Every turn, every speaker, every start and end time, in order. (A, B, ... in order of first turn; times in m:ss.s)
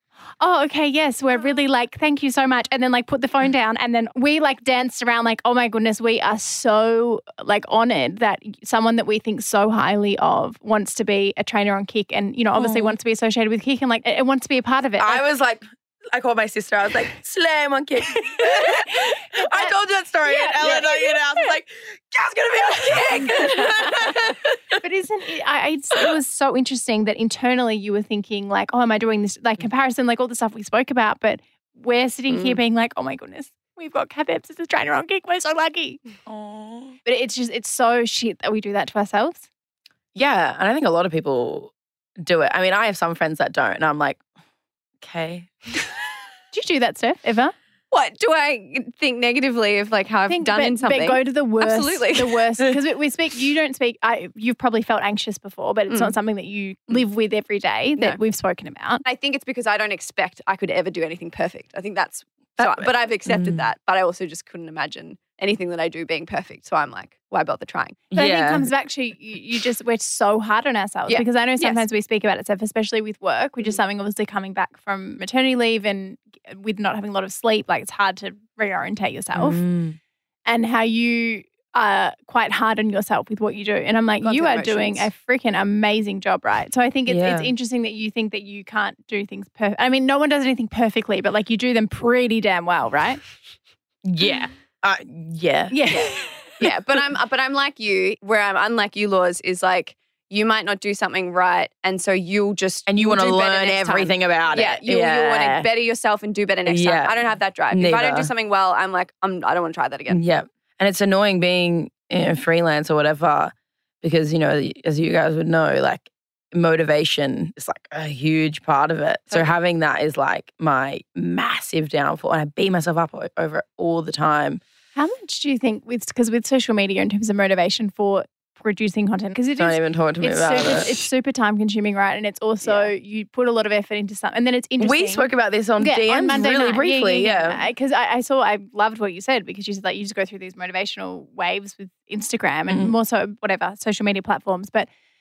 0:00.4-0:15.2 A
0:12.6-0:13.0 B
0:15.0-0:24.8 B
0:18.1-0:19.7 A
0:20.2-0:21.5 A
0:23.0-0:24.1 A
0:24.8-0:36.0 A
0:32.3-0:32.6 C
0:36.3-0:37.0 B
0:37.0-0:39.5 A
0:40.2-0:44.2 B
0:45.0-0:46.0 B
0:46.5-0:47.6 A
0:47.9-0:52.4 C
0:50.3-0:59.0 A
0:59.0-1:08.0 C
1:02.6-1:03.7 B
1:08.1-1:08.7 B
1:08.2-1:19.6 A
1:11.1-1:11.8 C
1:19.3-1:20.0 B
1:20.5-1:33.2 A
1:24.2-1:25.1 C
1:27.1-1:27.5 B
1:34.0-1:35.9 B
1:35.7-1:36.4 A
1:35.9-1:50.2 C
1:42.9-1:45.7 B
1:46.7-1:47.2 B
1:47.7-1:48.3 B
1:50.1-2:04.6 B
2:05.0-2:15.3 A
2:09.6-2:11.0 B
2:14.8-2:17.6 B
2:15.8-2:24.9 A
2:22.7-2:22.9 B